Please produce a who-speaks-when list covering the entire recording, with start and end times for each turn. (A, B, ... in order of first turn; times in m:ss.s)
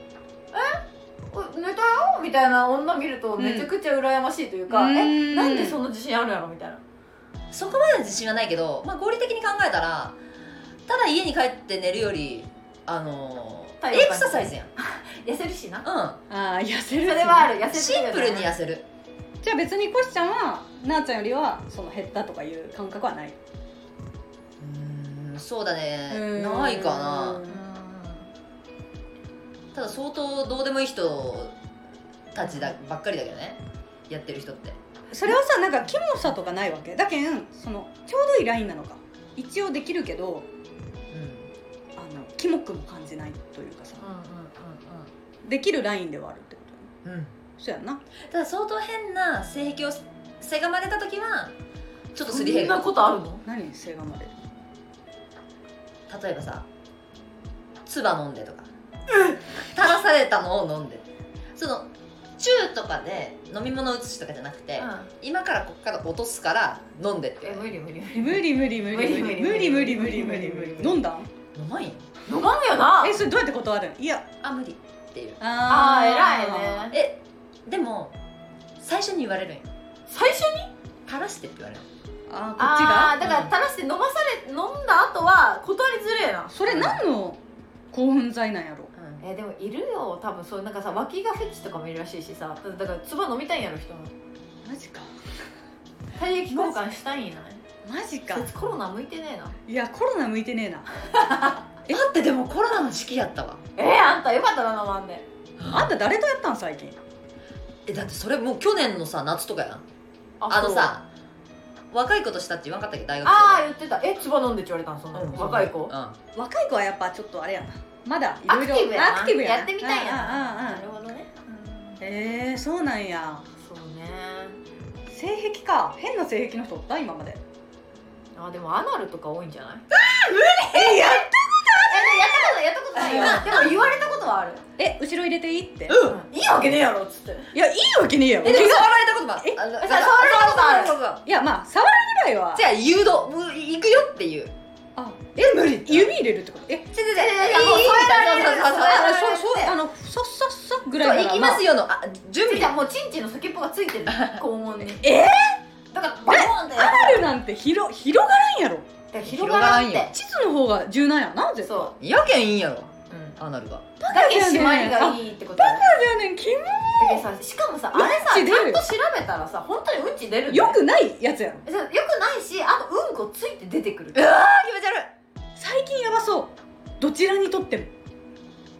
0:00.5-0:06.8 A
0:03.4-0:03.7 B
0:04.7-0:05.8 B
0:07.5-0:10.2 C
0:10.9-0:14.7 C
0:13.8-0:15.9 A
0:15.8-0:16.2 C
0:16.3-0:17.5 B
0:17.0-0:18.5 A
0:17.7-0:18.9 C
0:19.4-0:23.4 B
0:24.6-0:27.4 C
0:26.1-0:27.6 B
0:27.5-0:28.3 A
0:29.7-0:31.6 C
0:32.3-0:34.8 C
0:35.1-0:40.5 B
0:41.1-0:41.5 C
0:42.0-0:44.0 B
0:44.0-0:45.1 A
0:45.4-0:46.9 B
0:47.0-0:47.3 C
0:47.6-0:48.0 B
0:48.2-0:51.5 C
0:52.1-0:52.8 C
0:52.3-0:53.4 A
0:53.4-0:54.4 B
0:56.1-0:56.6 C
0:57.8-0:58.7 C
0:59.7-1:07.7 C
1:04.8-1:05.1 A
1:07.4-1:11.0 A
1:08.2-1:11.3 B
1:11.5-1:12.0 C
1:12.3-1:13.2 A
1:13.0-1:14.3 B
1:14.4-1:15.4 C
1:15.4-1:16.9 B
1:15.7-1:17.0 A
1:16.9-1:18.2 C
1:18.8-1:19.7 C
1:20.1-1:20.7 A
1:21.1-1:21.9 C
1:22.3-1:23.2 B
1:22.6-1:26.8 A
1:23.2-1:23.5 C
1:26.5-1:27.4 B
1:26.7-1:27.0 C
1:27.9-1:28.9 B
1:29.0-1:29.2 C
1:29.2-1:34.1 A
1:34.6-1:35.1 B
1:36.2-1:37.6 A
1:36.5-1:36.8 B
1:37.8-1:38.5 B
1:38.3-1:39.6 A
1:39.7-1:42.0 B
1:41.1-1:41.6 A
1:41.9-1:43.6 C
1:43.8-1:45.3 A
1:45.6-1:45.9 C
1:45.7-1:47.0 B
1:47.9-1:49.8 C
1:50.4-1:51.0 A
1:50.5-1:51.1 C
1:51.9-1:53.6 C
1:53.2-1:55.9 A
1:55.1-1:56.2 C
1:56.3-2:00.8 B
1:58.5-2:02.0 A
2:02.0-2:03.4 B
2:03.6-2:04.6 A
2:05.1-2:07.4 B
2:08.4-2:09.9 A
2:10.0-2:11.1 C
2:10.7-2:12.5 B
2:11.7-2:14.6 A
2:13.0-2:13.6 C
2:13.1-2:13.6 B
2:14.8-2:16.0 B
2:15.9-2:16.2 C
2:16.0-2:17.5 A
2:17.5-2:19.6 B
2:18.4-2:21.2 C
2:19.8-2:21.0 A
2:21.3-2:22.7 B
2:22.5-2:24.5 C
2:25.0-2:26.9 B
2:25.4-2:26.1 C
2:26.9-2:29.6 C
2:27.1-2:29.7 A
2:28.7-2:31.7 B
2:31.0-2:32.7 C
2:32.4-2:35.1 A
2:34.1-2:34.4 C
2:35.0-2:35.6 B
2:35.9-2:37.3 A
2:36.3-2:38.9 B
2:39.1-2:40.1 A
2:39.2-2:40.1 C
2:40.1-2:41.9 B
2:41.6-2:41.9 A
2:42.0-2:43.9 C
2:43.1-2:43.4 A
2:44.0-2:47.2 B
2:44.0-2:45.9 A
2:47.0-2:50.8 A
2:47.9-2:48.9 B
2:50.5-2:51.6 B
2:51.6-2:54.2 A
2:54.1-2:55.1 C
2:55.6-2:57.9 B